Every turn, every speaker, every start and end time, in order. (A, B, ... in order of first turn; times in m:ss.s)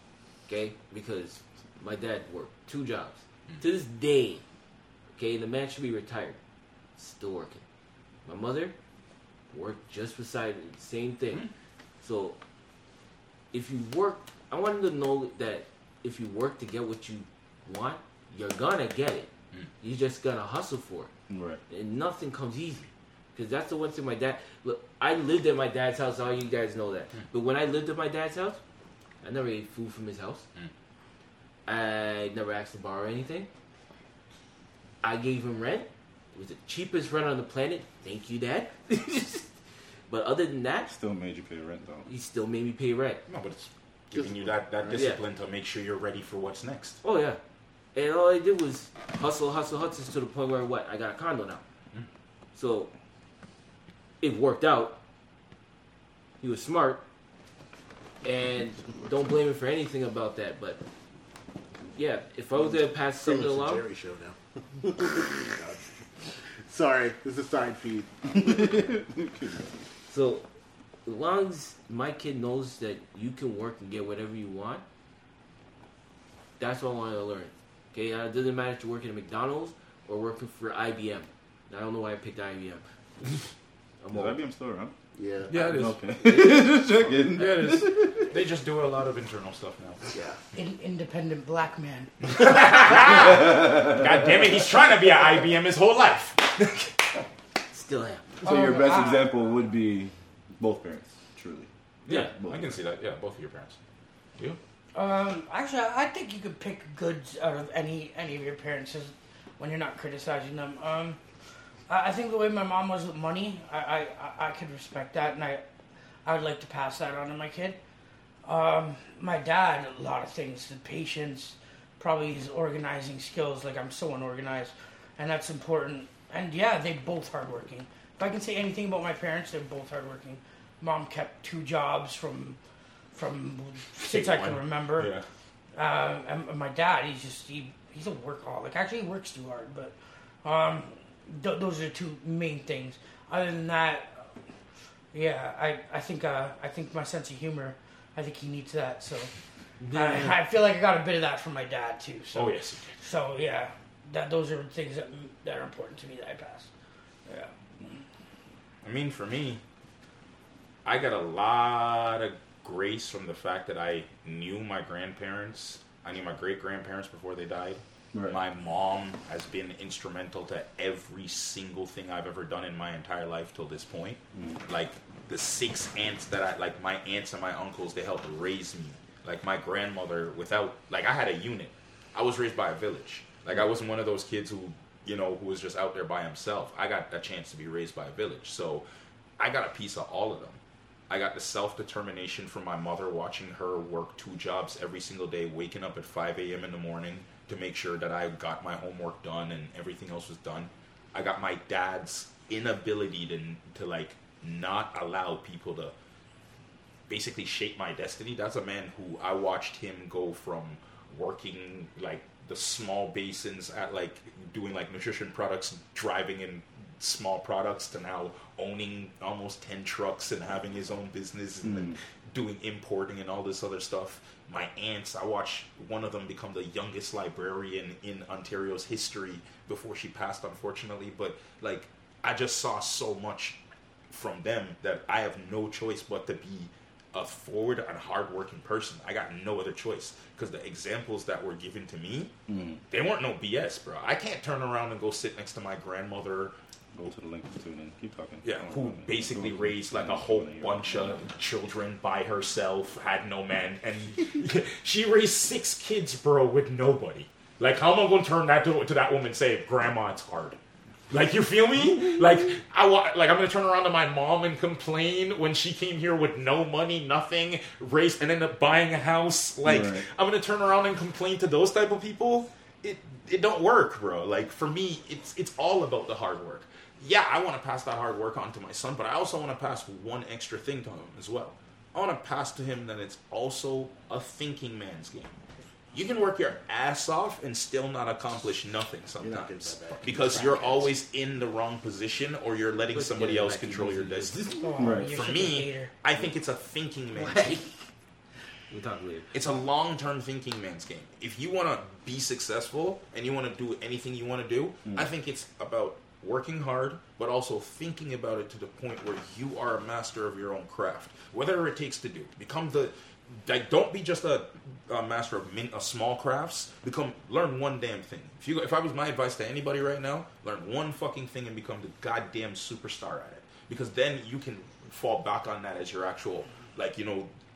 0:00.5-0:04.4 A
0:05.2-0:06.4 A
0:07.0-0:07.6 A
0:08.3-0:08.7 A
0:09.5-0:11.4 A
0:12.0-0:12.4 A
0:13.5-0:21.1 A
0:21.3-0:21.6 B
0:21.7-0:28.6 A
0:29.2-0:30.4 A
0:31.7-0:33.5 A
0:35.0-0:39.5 A
0:40.1-0:40.9 A
0:40.9-0:42.1 B
0:42.1-0:43.2 A
0:43.3-0:47.0 C
0:44.1-0:45.1 D
0:44.9-0:45.2 A
0:47.0-0:47.4 A
0:48.0-0:51.6 A
0:52.6-0:52.9 A
0:54.2-0:55.0 A
0:56.4-0:57.0 A
0:58.2-1:00.8 A
1:02.0-1:03.8 A
1:02.6-1:05.9 D
1:06.7-1:09.0 D
1:08.4-1:09.7 B
1:10.1-1:10.4 A
1:11.1-1:14.8 A
1:16.6-1:23.5 A
1:24.0-1:24.4 A
1:24.1-1:24.9 B
1:25.1-1:25.5 D
1:25.5-1:26.0 C
1:25.5-1:28.3 B
1:26.3-1:26.7 A
1:27.3-1:30.1 C
1:30.1-1:30.4 A
1:30.6-1:32.1 E
1:32.2-1:36.9 C
1:33.6-1:34.0 B
1:37.7-1:38.4 A
1:38.4-1:39.3 E
1:38.4-1:42.8 B
1:42.1-1:43.8 C
1:44.9-1:51.2 E
1:51.9-1:55.6 E
1:56.2-1:57.8 E
1:58.4-2:12.6 E
2:13.1-2:15.1 E
2:14.0-2:15.2 C
2:15.8-2:24.3 E
2:25.1-2:29.3 E
2:29.8-2:30.4 A
2:29.9-2:36.7 E
2:32.3-2:32.9 C
2:37.3-2:38.0 E
2:38.8-2:39.6 C
2:40.8-3:08.8 C
2:48.1-2:48.4 B
2:54.4-2:54.6 B
3:09.4-3:10.6 C
3:11.1-3:25.9 C
3:27.1-3:53.6 C
3:41.6-3:42.0 B
3:54.1-4:02.3 C
4:02.5-4:02.8 B
4:02.9-4:06.5 C
4:06.9-4:11.2 B
4:08.4-4:20.6 C
4:21.1-4:45.4 C
4:29.6-4:30.0 B
4:45.9-4:57.6 C
4:49.2-4:50.9 D
4:52.9-4:54.7 A
4:54.6-4:55.9 E
4:54.8-4:55.1 B
4:57.1-4:57.8 A
4:58.7-4:59.3 A
4:59.3-5:27.3 C